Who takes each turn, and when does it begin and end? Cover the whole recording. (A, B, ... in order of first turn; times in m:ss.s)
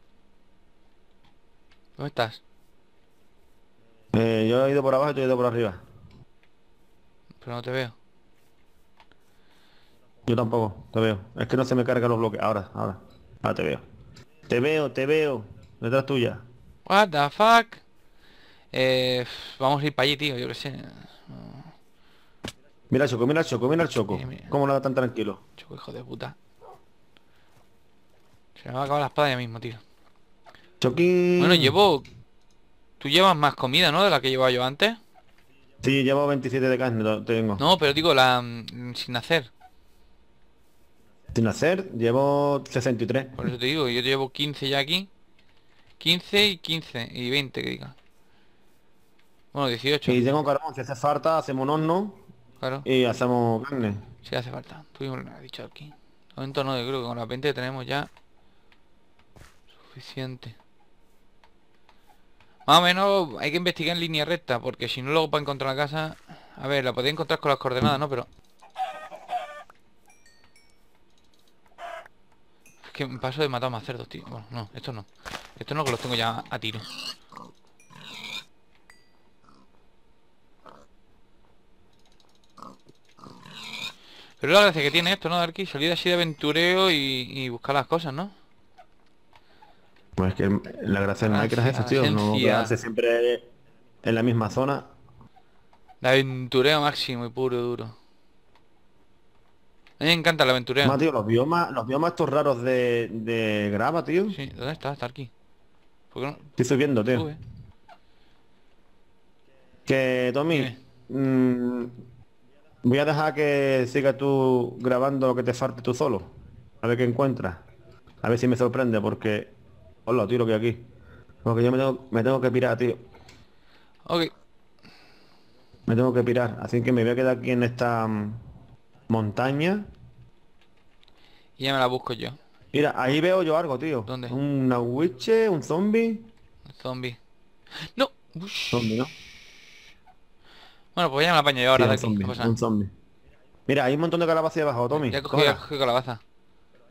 0:02.0-0:02.4 A
0:04.1-0:05.8 B
0:07.4-0:08.0 A
0:10.3-0:13.8 B
0:14.5-0:16.4 B
0:16.8-0:17.8 A
0:18.7-0:21.7 A
0:22.9-0:25.4 B
0:24.1-0:24.5 A
0:25.6-0:26.4 A
0:28.6-0:29.8 A
0:30.8-0:31.7 B
0:31.4-0:32.0 A
0:33.0-0:35.0 A
0:35.8-0:37.6 B
0:37.6-0:39.5 A
0:41.3-0:43.4 B
0:43.4-0:45.1 A
0:46.0-0:48.0 A
0:49.5-0:50.3 A
0:50.1-0:52.2 B
0:52.6-0:52.8 A
0:52.8-0:54.0 B
0:54.2-0:58.1 A
0:59.9-1:00.6 A
1:02.7-1:08.3 A
1:12.8-1:16.8 A
1:24.4-1:28.3 A
1:30.2-1:33.4 B
1:31.2-1:32.7 A
1:34.0-1:34.9 B
1:36.0-1:37.9 A
1:40.0-1:41.0 A
1:40.8-1:44.4 B
1:44.3-1:45.3 A
1:46.1-1:46.5 A
1:46.6-1:47.3 B
1:47.1-1:47.4 A
1:49.9-1:51.9 B
1:50.5-1:50.8 A
1:52.8-1:56.3 B
1:56.8-1:57.6 B
1:58.2-1:59.5 B
2:00.0-2:00.9 B
2:01.4-2:03.0 B
2:05.9-2:08.4 B
2:09.1-2:09.9 B
2:11.6-2:12.4 A
2:12.7-2:16.3 B
2:14.1-2:14.4 A
2:16.7-2:17.2 A
2:17.8-2:19.0 A
2:18.7-2:19.1 B
2:21.0-2:22.6 A
2:21.7-2:22.9 B
2:23.7-2:25.6 B
2:25.0-2:26.2 A